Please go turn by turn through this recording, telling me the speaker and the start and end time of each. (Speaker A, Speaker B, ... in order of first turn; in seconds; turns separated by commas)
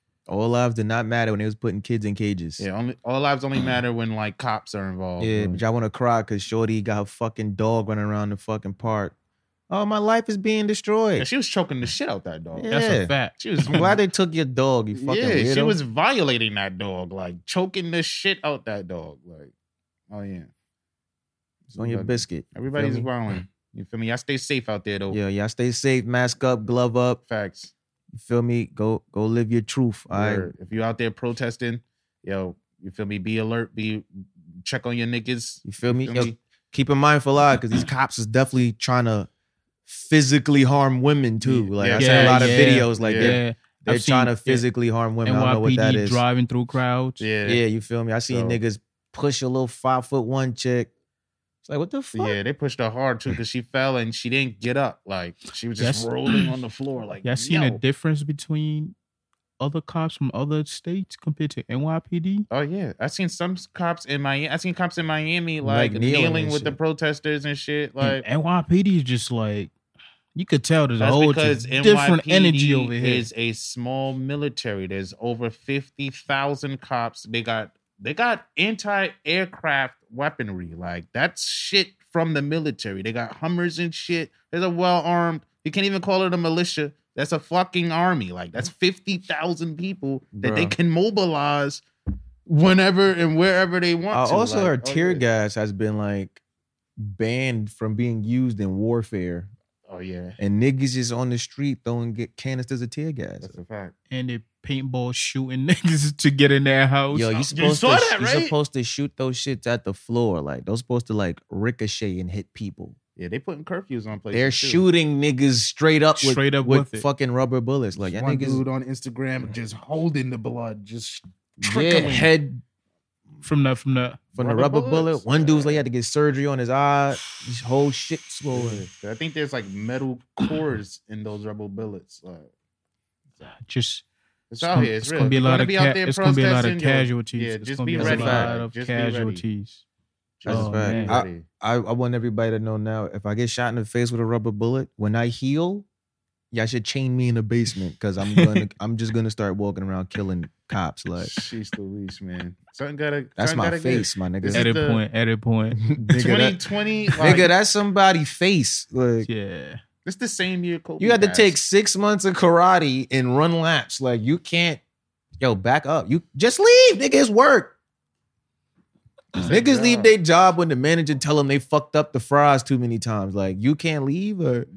Speaker A: 0.3-2.6, Speaker B: 2.6-5.6, Speaker A: 5.2-9.1, Speaker A: 9.7-11.3, Speaker B: 11.2-12.7, Speaker A: 12.6-13.1, Speaker C: 12.7-13.4, Speaker B: 13.4-14.0, Speaker A: 13.7-15.8, Speaker B: 14.9-19.5, Speaker B: 20.1-20.5, Speaker B: 21.7-25.2, Speaker A: 21.7-23.1, Speaker A: 25.1-27.2, Speaker B: 27.2-27.7, Speaker A: 28.1-30.5, Speaker B: 30.1-36.4, Speaker A: 35.6-39.3, Speaker A: 39.9-46.2, Speaker B: 41.4-43.4, Speaker C: 42.0-44.6, Speaker C: 45.2-47.2, Speaker B: 47.2-47.6, Speaker A: 47.4-50.9, Speaker B: 48.3-48.6, Speaker A: 51.6-52.4, Speaker B: 52.1-57.8, Speaker C: 55.8-56.5, Speaker C: 57.2-58.9, Speaker C: 59.6-62.5, Speaker B: 62.5-68.2, Speaker A: 65.6-66.8, Speaker C: 68.0-69.7, Speaker C: 70.3-73.3, Speaker B: 71.0-91.8, Speaker A: 90.3-90.8, Speaker B: 92.5-95.2, Speaker A: 94.1-96.4, Speaker A: 97.0-99.5, Speaker B: 99.9-100.4, Speaker A: 100.4-103.6, Speaker B: 103.4-103.9, Speaker C: 104.1-107.4, Speaker A: 107.1-112.9, Speaker B: 107.4-108.5, Speaker B: 113.2-114.8, Speaker A: 114.3-118.6, Speaker C: 116.2-117.0, Speaker B: 118.0-122.3, Speaker A: 121.6-122.6, Speaker C: 123.4-124.2, Speaker A: 124.3-128.8, Speaker B: 124.4-125.8, Speaker B: 128.5-132.5, Speaker C: 133.4-134.0, Speaker B: 134.5-139.4, Speaker C: 134.6-139.8, Speaker A: 138.0-138.5, Speaker B: 140.4-141.4, Speaker C: 140.4-141.2, Speaker A: 140.5-145.8, Speaker A: 146.5-151.3, Speaker C: 148.3-148.6, Speaker B: 151.2-155.0, Speaker A: 153.4-154.7, Speaker C: 154.5-155.8, Speaker A: 155.8-156.6, Speaker B: 156.0-157.5, Speaker A: 157.2-159.3, Speaker C: 159.2-159.8, Speaker B: 160.0-161.6, Speaker A: 161.0-164.8, Speaker A: 165.4-167.7, Speaker A: 169.4-174.7, Speaker B: 169.4-170.1